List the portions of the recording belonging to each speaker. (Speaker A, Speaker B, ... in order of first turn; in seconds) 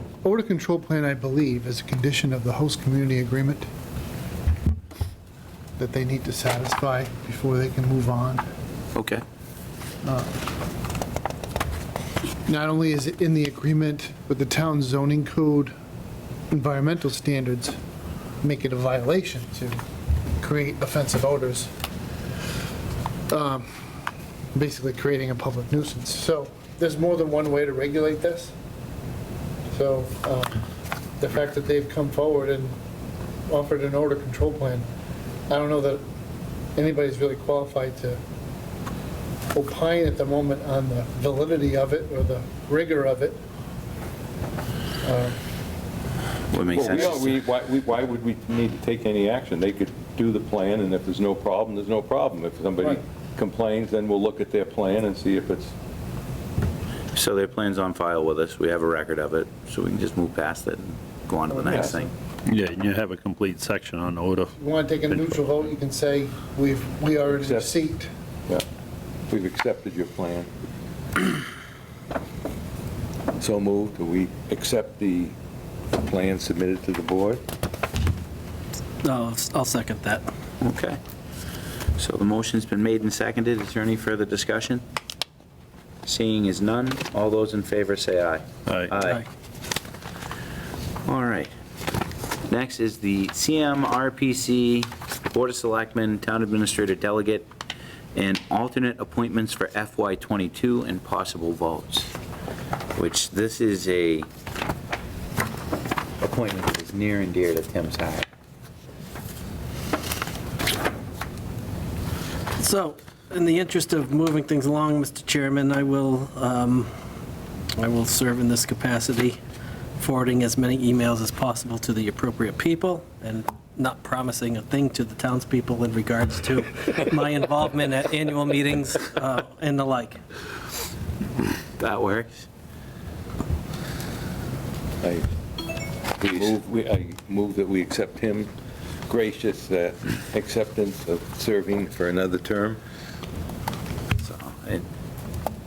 Speaker A: 0.2-3.7, 5.8-8.4, 10.0-10.4, 12.5-15.7, 16.5-17.8, 18.4-19.8, 20.4-21.7, 23.3-23.9, 24.5-28.6, 29.7-30.6, 31.2-32.8, 33.5-34.9, 35.5-36.0, 36.8-38.2, 39.5-43.4, 45.0-45.4, 61.5-62.1, 64.6-68.1
Speaker B: 8.9-9.2, 46.5-47.3, 57.1-62.1, 80.6-81.0, 82.0-84.8, 86.0-89.2, 91.0-91.5, 92.5-97.5, 98.2-102.1, 103.0-104.3, 106.2-108.3, 131.8-132.5, 144.2-144.8
Speaker C: 46.7-55.7, 61.7-62.0, 67.3-67.8, 69.3-70.5, 73.4-75.3, 76.0-77.4, 135.0-135.3, 136.2-138.5, 139.1-142.8
Speaker D: 62.5-64.5, 65.1-65.4
Speaker E: 79.0-80.2, 112.6-116.9, 117.8-119.4, 120.0-130.2